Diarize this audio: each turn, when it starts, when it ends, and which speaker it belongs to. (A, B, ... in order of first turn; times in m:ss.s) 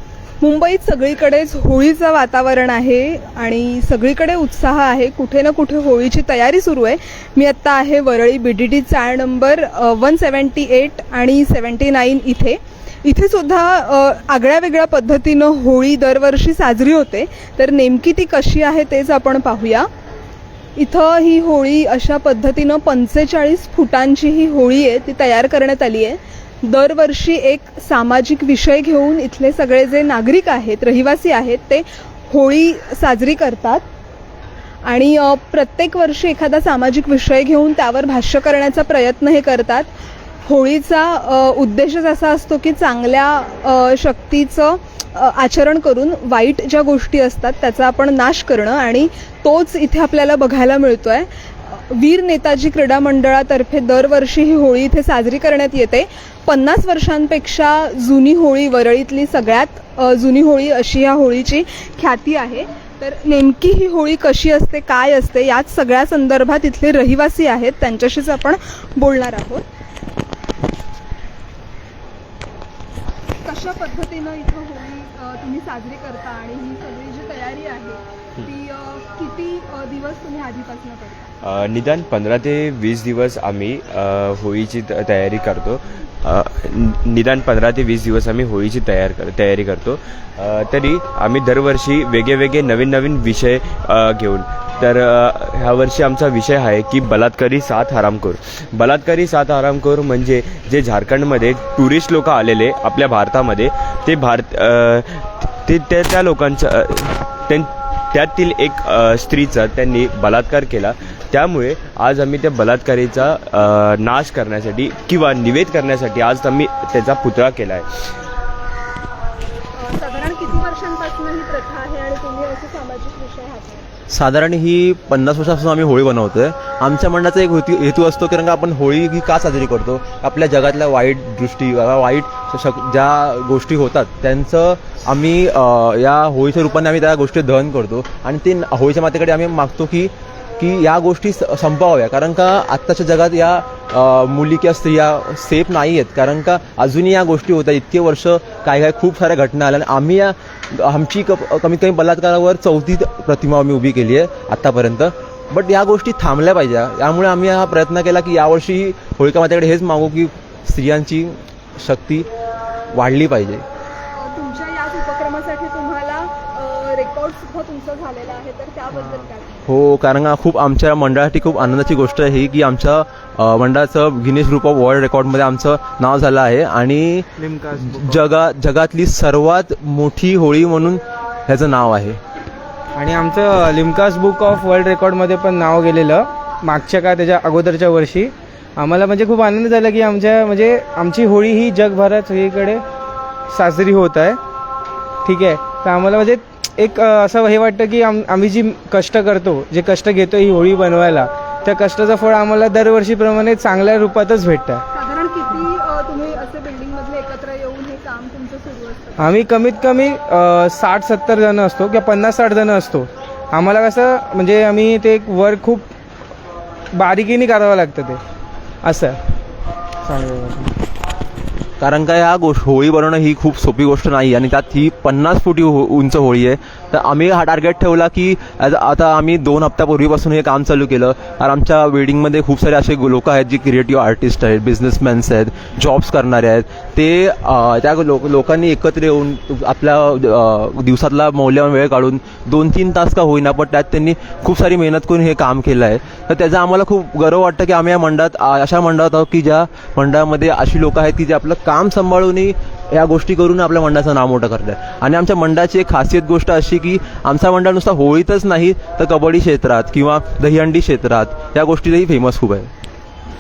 0:00.4-0:19.9 A
0:20.8-0:33.8 A
0:34.8-0:39.9 A
0:40.4-1:09.6 A
1:13.4-1:21.3 A
1:21.4-1:58.0 B
1:59.8-2:03.9 A
2:04.1-2:42.3 C
2:42.9-2:43.6 C
2:44.1-2:49.6 A
2:49.7-2:57.3 C
2:57.4-2:58.2 D
2:57.9-3:02.2 C
3:02.9-3:12.8 D
3:13.5-3:14.4 D
3:15.2-3:24.8 D
3:24.9-3:29.4 A
3:29.2-3:35.9 D
3:36.9-3:38.2 D
3:38.8-3:39.2 D
3:40.0-3:40.7 D
3:41.8-4:22.7 C